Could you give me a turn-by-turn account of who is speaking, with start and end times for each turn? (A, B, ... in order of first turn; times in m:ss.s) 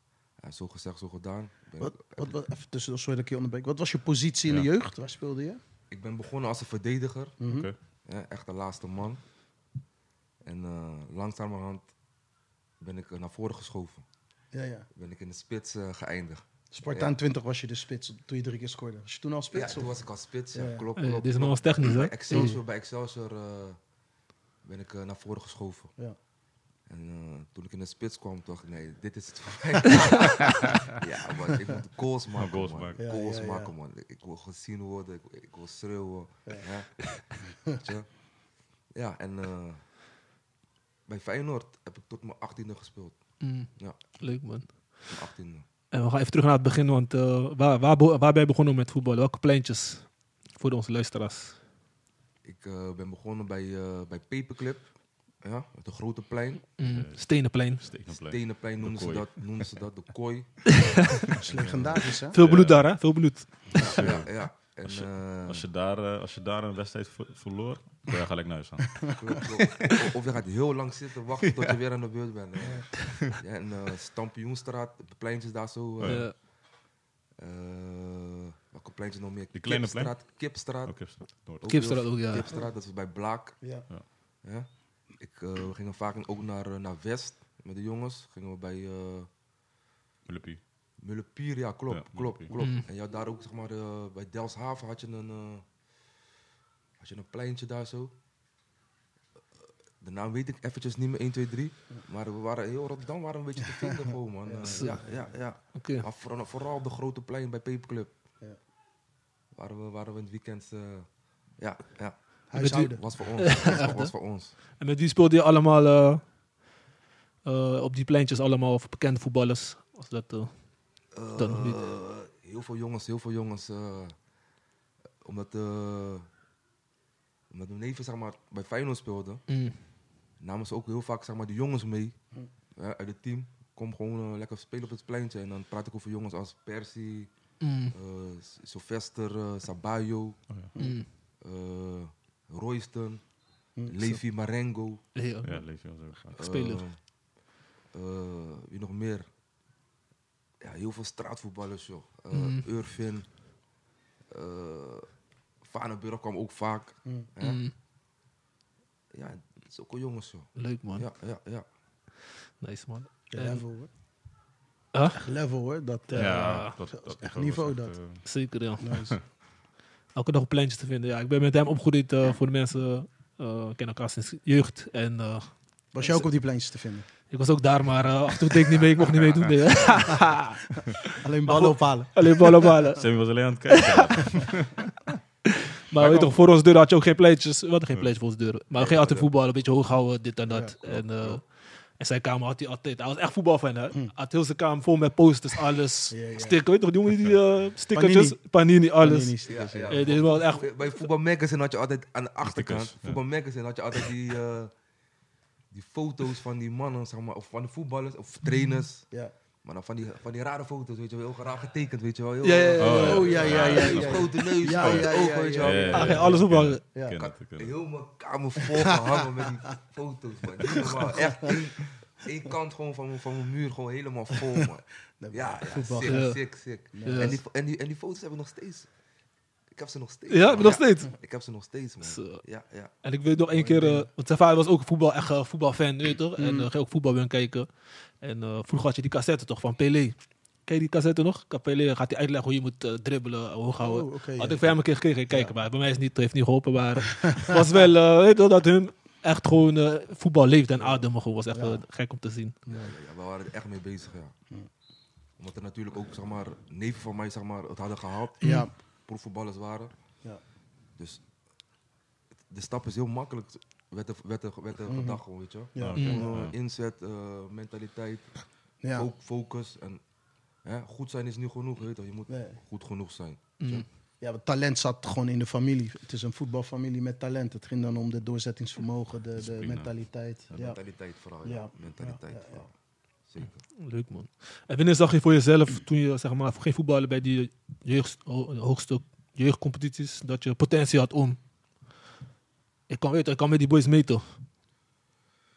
0:00.4-0:02.4 A
0:01.8-0:05.6 B
0:05.9-0:07.4 A
0:07.4-0:07.7 B
0:07.4-0:07.8 C
0:08.0-0:09.2 A
0:10.4-0:11.9 A
0:12.8-0:14.0 A
0:14.5-0:14.9 B
0:14.9-0:17.1 A
0:16.7-0:19.9 B
0:19.5-0:23.8 A
0:20.5-0:20.8 B
0:21.0-0:22.6 D
0:24.6-0:25.9 A
0:26.9-0:38.1 A
0:32.4-0:33.0 C
0:33.0-0:33.7 B
0:38.9-0:39.9 A
0:41.1-0:44.2 A
0:43.4-0:45.0 D
0:45.0-0:45.6 A
0:45.9-0:51.6 D
0:52.4-0:56.7 A
0:56.8-0:57.8 D
0:56.8-0:59.8 C
0:58.1-1:02.0 A
1:01.4-1:02.4 B
1:01.7-1:09.2 C
1:02.3-1:03.9 D
1:03.8-1:05.7 A
1:09.1-1:16.4 A
1:16.0-1:16.3 C
1:16.0-1:16.3 D
1:17.4-1:29.3 A
1:19.5-1:21.9 C
1:21.7-1:22.5 D
1:23.6-1:23.9 B
1:30.2-1:30.6 C
1:31.0-1:35.7 A
1:31.9-1:32.5 C
1:32.6-1:32.9 D
1:37.0-1:38.1 A
1:40.0-1:48.1 A
1:44.4-1:45.3 B
1:44.7-1:45.0 D
1:45.7-1:46.0 D
1:49.5-1:54.5 A
1:52.5-1:53.0 B
1:52.5-1:54.1 D
1:54.8-1:56.2 D
1:57.4-2:00.7 D
2:01.1-2:04.1 A
2:01.4-2:01.8 D
2:05.2-2:06.3 A
2:07.5-2:09.4 A
2:09.5-2:09.8 D
2:10.4-2:12.2 A
2:12.7-2:17.3 A
2:17.6-2:17.9 D
2:17.9-2:20.4 A
2:20.8-2:21.1 D
2:21.4-2:23.3 A
2:23.8-2:24.1 B
2:23.8-2:25.0 A
2:25.1-2:26.8 D
2:25.4-2:26.4 C
2:26.4-2:27.0 A
2:27.9-2:29.2 A
2:30.6-2:33.4 A
2:32.3-2:32.6 D
2:34.3-2:37.6 A
2:37.4-2:37.7 D
2:39.1-2:41.6 A
2:40.6-2:41.1 D
2:42.6-2:43.6 D
2:43.3-2:43.9 B
2:44.9-2:45.2 D
2:45.1-2:48.0 B
2:46.1-2:46.8 D
2:46.1-2:48.3 C
2:48.2-2:48.9 D
2:48.8-2:49.2 B
2:50.1-2:56.3 D
2:55.9-2:57.1 B
2:57.3-3:03.0 D
2:59.1-2:59.5 C
3:01.0-3:03.0 B
3:03.0-3:04.9 C
3:03.7-3:04.3 D
3:05.5-3:19.4 D
3:05.9-3:06.4 C
3:08.8-3:09.2 A
3:10.5-3:10.8 B
3:10.8-3:11.4 A
3:16.1-3:16.6 B
3:17.9-3:20.1 B
3:19.4-3:24.7 A
3:19.9-3:21.0 D
3:22.4-3:23.2 C
3:25.7-3:29.1 A
3:28.5-3:28.7 D
3:29.6-3:36.4 A
3:32.4-3:33.9 D
3:32.8-3:37.8 C
3:32.9-3:36.2 B
3:35.9-3:36.8 D
3:37.1-3:48.9 A
3:40.7-3:41.5 B
3:45.2-3:46.3 B
3:46.0-3:47.4 D
3:46.9-3:47.4 B
3:49.7-3:52.9 A
3:50.3-3:51.1 D
3:52.0-3:52.4 D
3:53.0-3:57.7 D
3:53.5-3:54.1 B
3:56.4-3:56.7 B
3:58.2-4:12.5 D
4:03.8-4:04.8 B
4:05.3-4:05.5 B
4:11.5-4:11.8 B
4:12.7-4:12.9 B
4:12.7-4:14.3 A
4:15.4-4:19.9 A
4:18.4-4:18.7 D
4:18.4-4:18.7 B
4:21.0-4:21.2 A
4:22.5-4:28.4 A
4:24.9-4:25.2 B
4:25.7-4:26.4 B
4:25.8-4:26.5 C
4:25.9-4:26.3 D
4:28.8-4:29.1 B
4:28.9-4:30.0 A
4:30.6-4:33.8 A
4:32.3-4:32.6 B
4:33.6-4:33.8 D
4:34.2-4:40.8 B
4:39.4-4:40.7 C
4:40.5-4:42.7 A
4:41.4-4:42.7 B
4:43.2-4:43.6 A
4:43.8-4:51.4 D
4:52.9-4:54.4 D